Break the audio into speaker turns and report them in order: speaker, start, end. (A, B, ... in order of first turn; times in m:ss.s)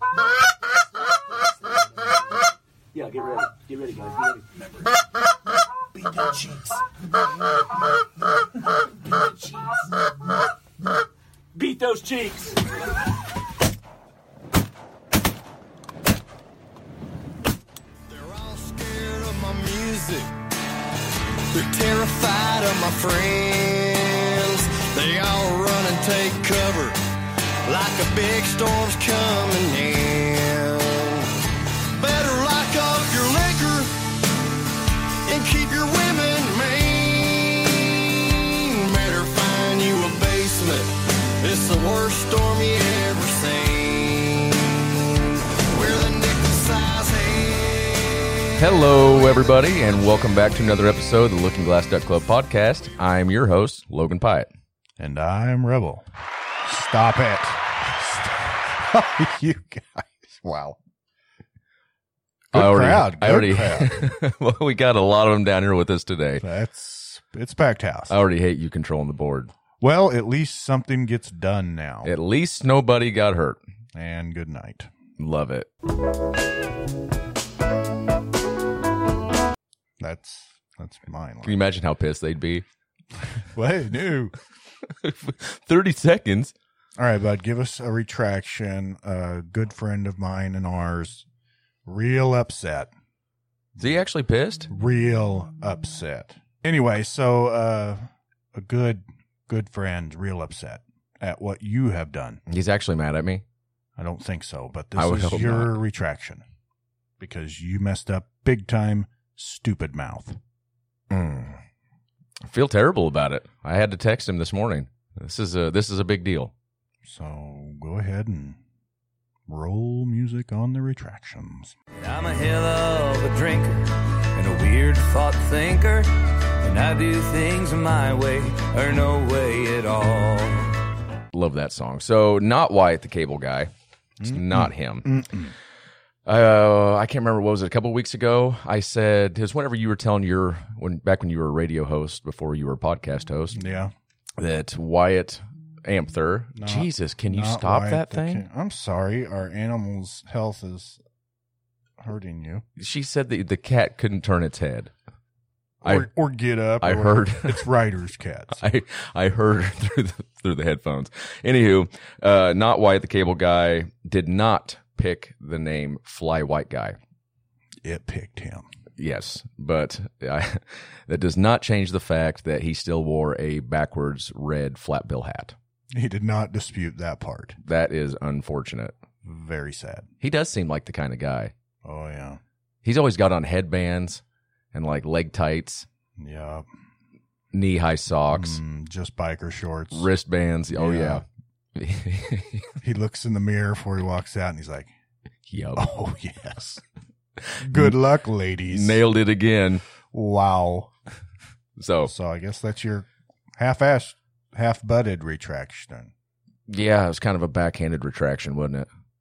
0:03.0-0:04.4 A
0:06.1-0:06.8 A
0:09.3-0:09.6 A
0:11.6-0:12.6 A
0:18.1-0:20.3 B
0:21.5-0:27.0 B
0:27.7-0:31.3 B
0:31.9-0:34.0 B
0:35.3-0:48.8 B
0:48.6-0:54.5 C
0:55.0-0:56.1 D
0:56.6-1:00.8 D
1:02.5-1:04.0 D
1:02.5-1:06.4 C
1:06.4-1:08.2 D
1:08.1-1:09.5 C
1:09.8-1:12.1 D
1:12.0-1:13.6 C
1:13.9-1:14.9 D
1:15.2-1:15.7 C
1:20.0-1:21.6 D
1:21.4-1:22.6 C
1:23.5-1:24.3 D
1:24.9-1:26.5 C
1:27.0-1:31.2 D
1:31.8-1:32.9 D
1:33.8-1:34.7 C
1:34.7-1:42.4 D
1:42.5-1:43.4 C
1:44.0-1:46.4 D
1:45.0-1:45.8 C
1:47.2-1:50.4 D
1:51.1-1:51.6 C
1:52.4-1:56.5 C
1:57.0-1:58.6 D
1:59.5-2:01.8 D
2:02.0-2:10.8 E
2:11.3-2:13.7 C
2:14.2-2:15.5 D
2:14.2-2:15.2 C
2:16.3-2:23.7 C
2:23.5-2:23.9 D
2:24.4-2:28.5 C
2:26.6-2:31.0 D
2:32.0-2:32.6 D
2:32.8-2:34.9 C
2:35.8-2:38.6 D
2:35.8-2:36.1 C
2:36.8-2:37.7 C
2:38.6-2:47.0 C
2:47.8-2:48.7 D
2:49.0-2:55.6 C
2:55.9-2:57.6 D
2:57.6-2:59.0 C
2:59.2-3:00.1 D
3:00.2-3:01.5 C
3:01.8-3:02.4 D
3:02.8-3:04.2 C
3:04.7-3:05.9 C
3:06.2-3:06.7 D
3:07.5-3:08.6 C
3:08.3-3:10.1 D
3:09.9-3:12.8 C
3:10.8-3:11.2 D
3:12.8-3:14.9 D
3:15.5-3:15.9 C
3:15.8-3:16.8 D
3:17.4-3:18.0 C
3:17.6-3:19.0 D
3:18.7-3:19.8 C
3:20.1-3:20.9 D
3:21.8-3:22.1 C
3:22.1-3:26.1 D
3:26.7-3:28.9 C